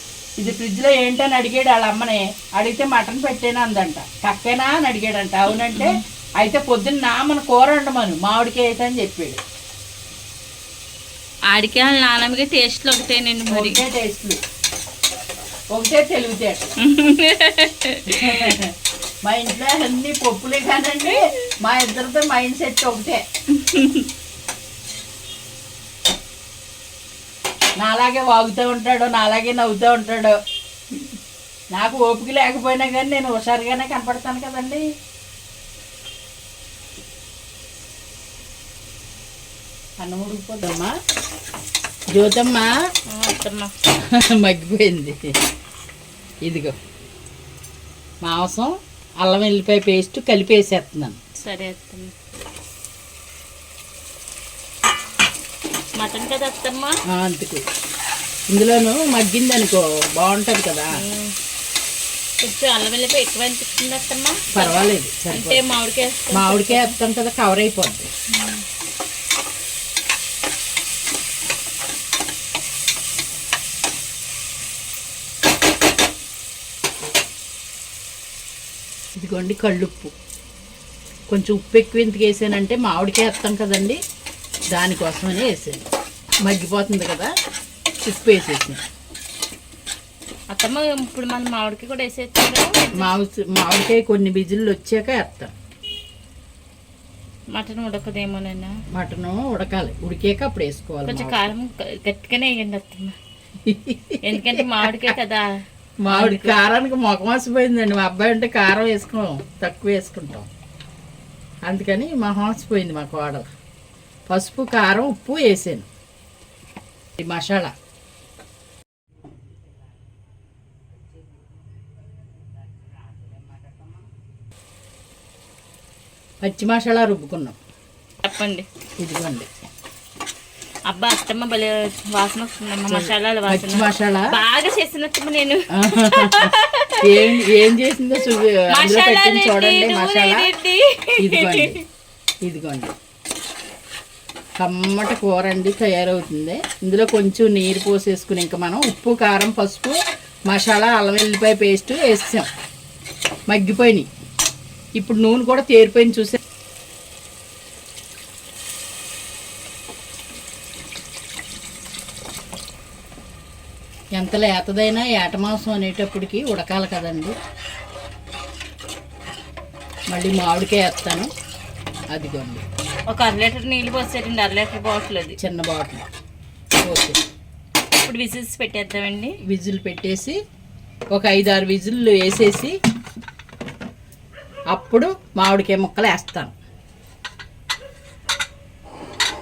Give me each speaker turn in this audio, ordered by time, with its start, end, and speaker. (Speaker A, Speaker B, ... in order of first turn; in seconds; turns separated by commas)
Speaker A: 0.4-9.4, Speaker B: 11.5-13.8, Speaker A: 13.5-14.4, Speaker A: 15.7-16.7, Speaker B: 16.8-18.6, Speaker A: 18.1-18.7, Speaker A: 19.2-23.2, Speaker B: 23.5-24.1, Speaker A: 27.8-30.4, Speaker A: 31.7-34.8, Speaker A: 40.0-40.9, Speaker A: 42.1-42.7, Speaker B: 43.1-43.7, Speaker A: 44.1-45.2, Speaker A: 46.4-46.7, Speaker A: 48.2-51.2, Speaker B: 51.4-52.1, Speaker B: 56.0-56.9, Speaker A: 57.1-57.6, Speaker A: 58.5-61.0, Speaker B: 61.0-61.3, Speaker B: 62.4-66.9, Speaker A: 64.5-65.6, Speaker A: 66.3-68.1, Speaker B: 68.3-68.6, Speaker A: 79.2-80.1, Speaker A: 81.3-84.0, Speaker A: 84.7-85.8, Speaker A: 86.4-87.3, Speaker A: 88.0-88.8, Speaker B: 90.5-93.1, Speaker A: 93.0-95.5, Speaker B: 97.5-98.7, Speaker A: 98.9-101.5, Speaker B: 101.1-103.1, Speaker A: 103.6-105.1, Speaker B: 104.2-105.5, Speaker A: 106.0-110.5, Speaker B: 106.1-106.5, Speaker A: 111.7-113.5, Speaker A: 114.3-115.8, Speaker A: 117.2-117.7, Speaker A: 126.4-127.6, Speaker B: 128.2-128.6, Speaker A: 129.0-129.5, Speaker B: 130.9-137.5, Speaker A: 132.9-134.3, Speaker A: 135.7-140.5, Speaker B: 138.7-141.8, Speaker A: 141.2-141.8, Speaker A: 142.4-142.9, Speaker A: 144.6-150.0, Speaker A: 150.5-152.5, Speaker A: 153.5-154.1, Speaker A: 155.0-156.4, Speaker A: 164.2-167.3, Speaker A: 170.1-171.3, Speaker A: 172.1-172.6, Speaker B: 173.1-175.4, Speaker A: 175.4-176.0, Speaker A: 176.8-177.2, Speaker B: 177.9-179.4, Speaker A: 179.4-180.4, Speaker A: 181.1-182.7, Speaker A: 184.7-186.5